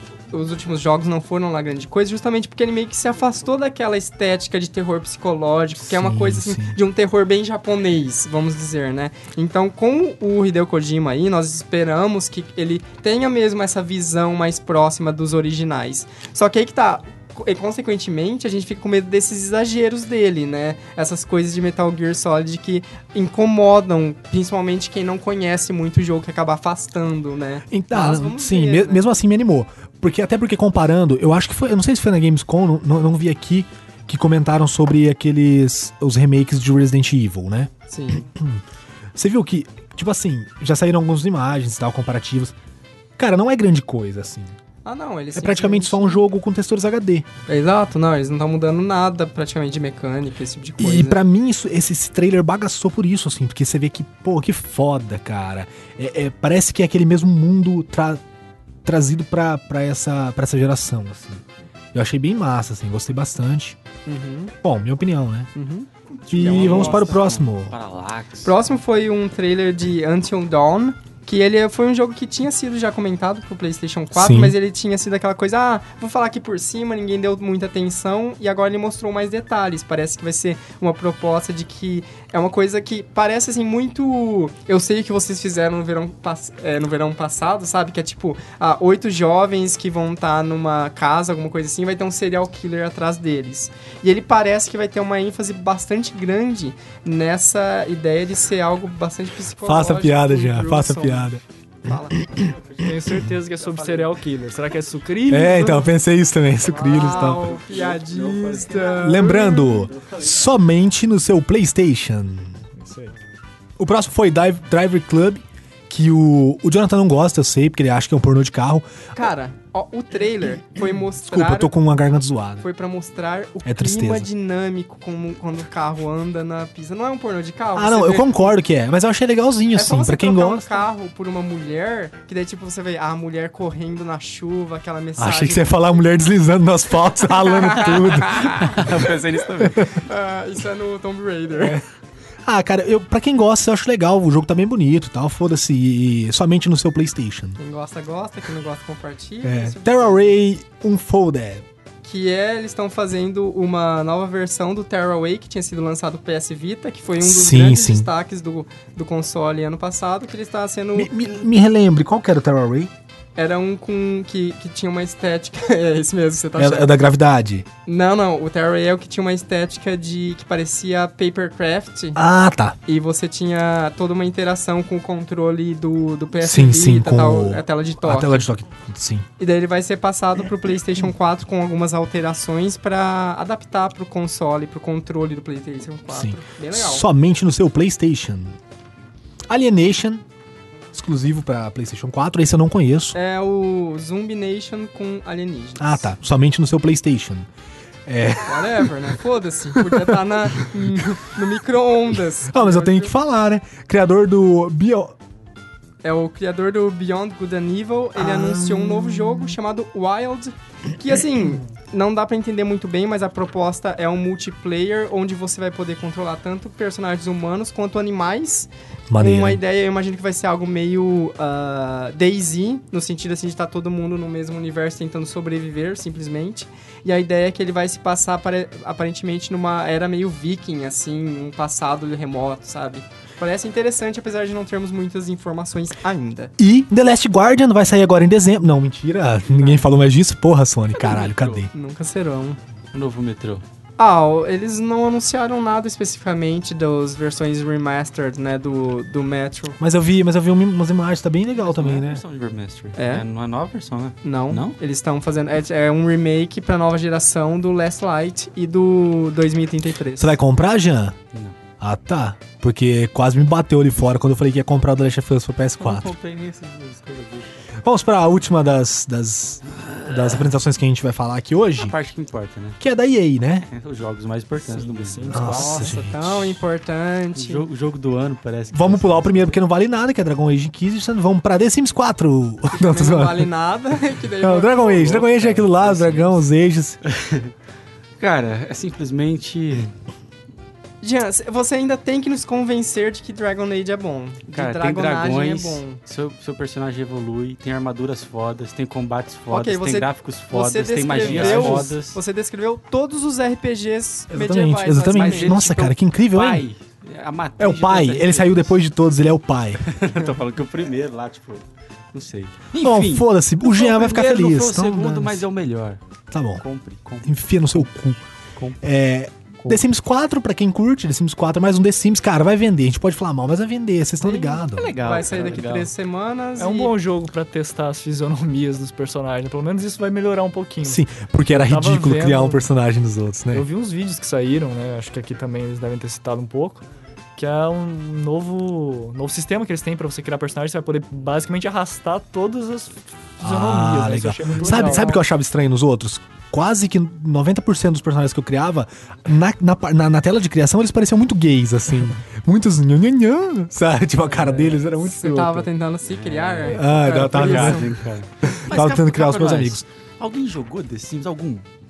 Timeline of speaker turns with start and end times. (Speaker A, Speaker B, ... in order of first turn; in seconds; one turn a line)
Speaker A: 0.3-29.1
Speaker B: 5.8-6.8
Speaker B: 27.7-38.6
Speaker A: 37.9-38.2
Speaker B: 39.1-42.5
Speaker B: 43.2-44.6
Speaker A: 44.8-46.2
Speaker B: 45.3-47.2
Speaker A: 47.5-51.2
Speaker B: 50.8-58.2
Speaker B: 58.8-63.8
Speaker A: 64.0-64.5
Speaker B: 64.6-65.5
Speaker A: 65.5-67.2
Speaker C: 66.3-68.5
Speaker B: 66.3-67.7
Speaker A: 68.4-102.2
Speaker B: 74.1-74.5
Speaker B: 99.6-101.4
Speaker B: 102.1-103.3
Speaker C: 102.5-102.8
Speaker D: 102.8-105.9
Speaker C: 103.5-104.1
Speaker B: 105.3-107.5
Speaker A: 106.7-109.9
Speaker C: 106.9-110.3
Speaker B: 109.0-112.6
Speaker D: 112.8-113.1
Speaker B: 113.8-118.9
Speaker A: 119.1-121.7
Speaker B: 121.2-122.6
Speaker A: 122.6-128.5
Speaker B: 123.6-124.3
Speaker B: 127.7-130.7
Speaker A: 129.7-135.8
Speaker B: 135.2-138.9
Speaker A: 137.4-138.8
Speaker C: 138.4-139.9
Speaker A: 139.9-141.8
Speaker B: 141.6-141.8
Speaker B: 142.4-147.6
Speaker A: 147.6-150.4
Speaker B: 149.4-151.6
Speaker A: 152.0-161.1
Speaker B: 157.2-158.1
Speaker B: 160.9-162.9
Speaker A: 163.3-166.9
Speaker B: 166.6-167.7
Speaker A: 167.9-172.2
Speaker B: 172.1-172.8
Speaker A: 172.8-178.4
Speaker B: 176.4-179.3
Speaker A: 179.4-187.1
Speaker B: 186.1-188.6
Speaker B: 189.5-190.2
Speaker B: 190.9-193.2
Speaker A: 193.1-196.1
Speaker B: 195.8-197.5
Speaker B: 198.1-198.9
Speaker A: 198.4-203.1
Speaker B: 199.8-200.6
Speaker B: 202.5-205.1
Speaker A: 206.0-236.5
Speaker B: 208.2-209.6
Speaker B: 219.1-219.6
Speaker B: 236.6-241.7
Speaker C: 241.0-241.7
Speaker A: 241.7-242.6
Speaker C: 242.9-243.6
Speaker A: 244.0-249.8
Speaker B: 249.8-252.2
Speaker C: 251.6-254.8
Speaker A: 253.0-253.2
Speaker A: 254.2-260.4
Speaker B: 260.2-261.1
Speaker B: 261.8-266.1
Speaker C: 265.8-267.6
Speaker B: 267.8-271.9
Speaker C: 269.8-270.4
Speaker C: 271.8-272.8
Speaker B: 272.8-273.6
Speaker C: 273.6-275.7
Speaker D: 274.6-275.9
Speaker B: 275.3-276.6
Speaker A: 275.5-277.6
Speaker C: 277.3-279.6
Speaker B: 278.7-283.5
Speaker A: 282.7-285.3
Speaker B: 284.4-287.0
Speaker C: 285.0-286.4
Speaker C: 287.0-287.5
Speaker C: 288.2-289.9
Speaker A: 291.0-296.0
Speaker C: 294.5-302.2
Speaker A: 299.5-305.9
Speaker B: 301.2-301.9
Speaker B: 304.3-306.6
Speaker C: 305.1-308.8
Speaker B: 307.6-309.9
Speaker C: 309.8-316.0
Speaker B: 312.8-315.4
Speaker B: 316.3-316.6
Speaker C: 316.6-317.9
Speaker B: 317.2-318.2
Speaker C: 318.6-318.8
Speaker B: 318.8-324.9
Speaker A: 324.2-326.9
Speaker C: 324.7-325.9
Speaker D: 326.6-332.6
Speaker B: 330.8-333.7
Speaker D: 333.5-345.2
Speaker B: 343.4-355.7
Speaker A: 344.6-345.2
Speaker A: 354.3-357.9
Speaker C: 356.0-361.6
Speaker B: 356.6-359.8